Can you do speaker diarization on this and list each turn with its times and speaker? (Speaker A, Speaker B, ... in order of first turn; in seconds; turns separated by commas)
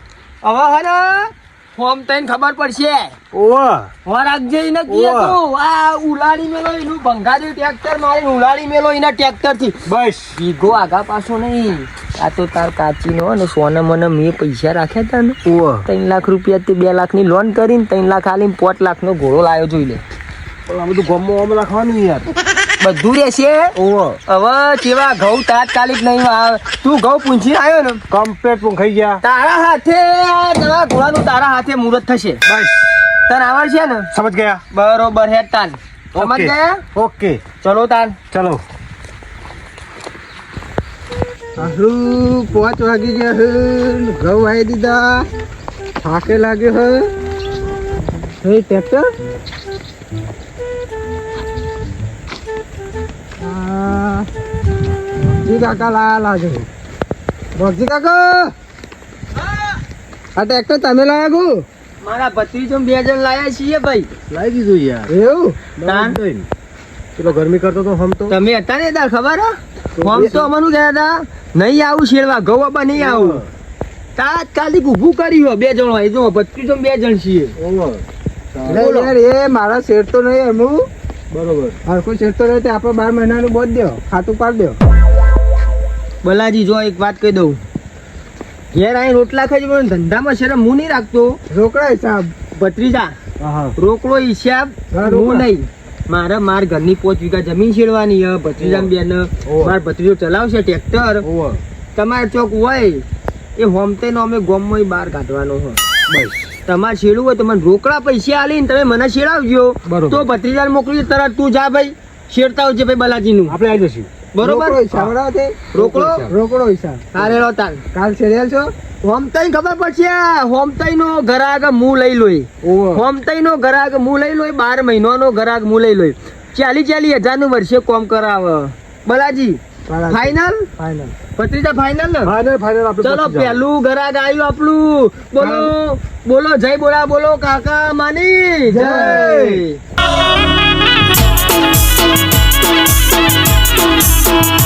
Speaker A: 0.4-3.1, Speaker B: 3.3-3.9, Speaker A: 4.0-9.8, Speaker B: 4.9-5.4, Speaker B: 9.8-10.3, Speaker A: 10.3-20.0, Speaker B: 15.4-15.9, Speaker B: 20.7-22.3, Speaker A: 22.8-23.8, Speaker B: 23.8-24.2, Speaker A: 24.3-28.0, Speaker B: 28.1-29.2, Speaker A: 29.2-32.4, Speaker B: 32.5-32.9, Speaker A: 33.3-34.1, Speaker B: 34.1-34.6, Speaker A: 34.7-36.8, Speaker B: 36.1-37.4, Speaker A: 37.6-38.2, Speaker B: 38.3-38.6, Speaker C: 41.6-45.3, Speaker C: 46.0-47.1, Speaker C: 48.4-49.1, Speaker C: 53.4-54.3, Speaker C: 55.4-56.7, Speaker C: 57.6-58.5, Speaker C: 60.4-61.7, Speaker A: 62.0-64.1, Speaker B: 64.3-65.1, Speaker C: 65.1-65.6, Speaker B: 65.8-66.5, Speaker A: 65.8-66.2, Speaker B: 67.2-68.4, Speaker A: 68.3-73.4, Speaker B: 70.0-70.5, Speaker B: 72.9-73.5, Speaker A: 74.2-77.5, Speaker B: 77.6-78.0, Speaker B: 78.5-78.8, Speaker C: 78.7-80.9, Speaker A: 78.7-79.1, Speaker B: 81.3-81.8, Speaker C: 81.8-84.8, Speaker A: 86.2-87.6, Speaker A: 88.7-91.4, Speaker C: 91.5-92.3, Speaker A: 92.5-93.1, Speaker B: 93.4-93.7, Speaker A: 93.8-101.2, Speaker C: 94.9-95.5, Speaker B: 98.6-98.9, Speaker B: 99.4-99.8, Speaker B: 101.2-101.6, Speaker A: 101.9-103.0, Speaker A: 103.6-105.8, Speaker B: 106.1-106.5, Speaker A: 106.7-113.6, Speaker B: 109.9-110.3, Speaker B: 113.5-114.1, Speaker A: 114.3-114.8, Speaker C: 114.4-117.3, Speaker A: 115.7-116.3, Speaker B: 115.7-116.3, Speaker A: 117.1-117.8, Speaker C: 117.9-118.7, Speaker A: 119.0-130.7, Speaker B: 122.6-123.0, Speaker C: 129.9-131.2, Speaker A: 131.3-132.3, Speaker B: 132.2-133.6, Speaker A: 133.0-139.8, Speaker C: 135.4-135.7, Speaker C: 138.7-139.4, Speaker B: 138.9-139.6